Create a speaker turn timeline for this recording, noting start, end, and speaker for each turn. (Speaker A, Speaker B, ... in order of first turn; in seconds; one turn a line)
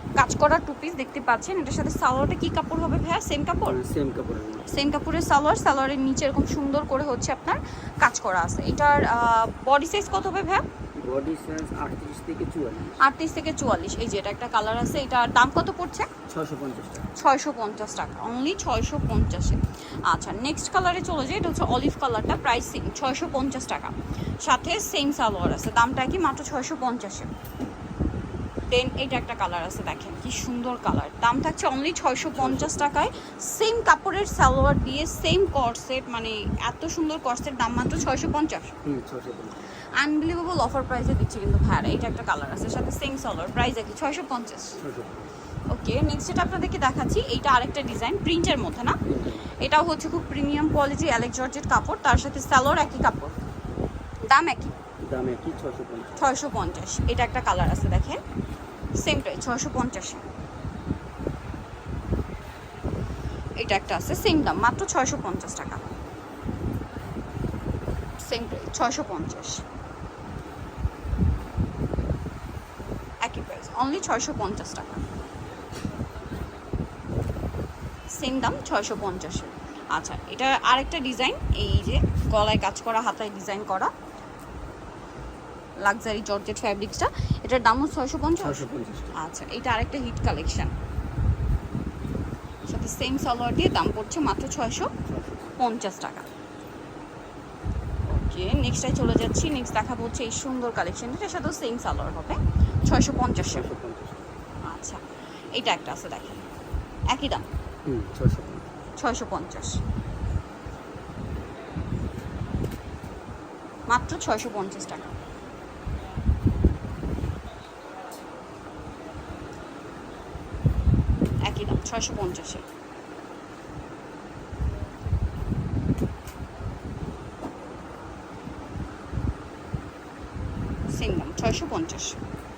Speaker A: 0.2-3.8
Speaker B: 3.7-4.7
Speaker A: 4.7-10.6
Speaker B: 10.9-13.0
Speaker A: 13.0-16.1
Speaker B: 16.3-17.1
Speaker A: 17.2-27.3
Speaker A: 28.7-38.8
Speaker B: 32.4-33.0
Speaker B: 38.8-39.6
Speaker A: 40.0-44.8
Speaker B: 44.8-45.2
Speaker A: 45.7-49.0
Speaker B: 49.1-49.5
Speaker A: 49.6-53.4
Speaker A: 54.2-54.7
Speaker B: 55.0-56.1
Speaker A: 56.2-58.2
Speaker A: 59.0-60.2
Speaker A: 63.6-65.9
Speaker A: 68.2-69.6
Speaker A: 73.2-75.0
Speaker A: 78.2-83.9
Speaker A: 85.8-90.7
Speaker B: 88.4-89.1
Speaker A: 92.7-94.9
Speaker B: 95.1-95.5
Speaker A: 95.6-96.3
Speaker A: 98.1-103.7
Speaker B: 103.4-104.2
Speaker A: 104.7-105.0
Speaker A: 105.5-106.4
Speaker A: 107.1-107.5
Speaker B: 107.9-108.7
Speaker A: 109.0-109.8
Speaker A: 113.9-115.1
Speaker A: 121.4-122.7
Speaker A: 130.9-132.2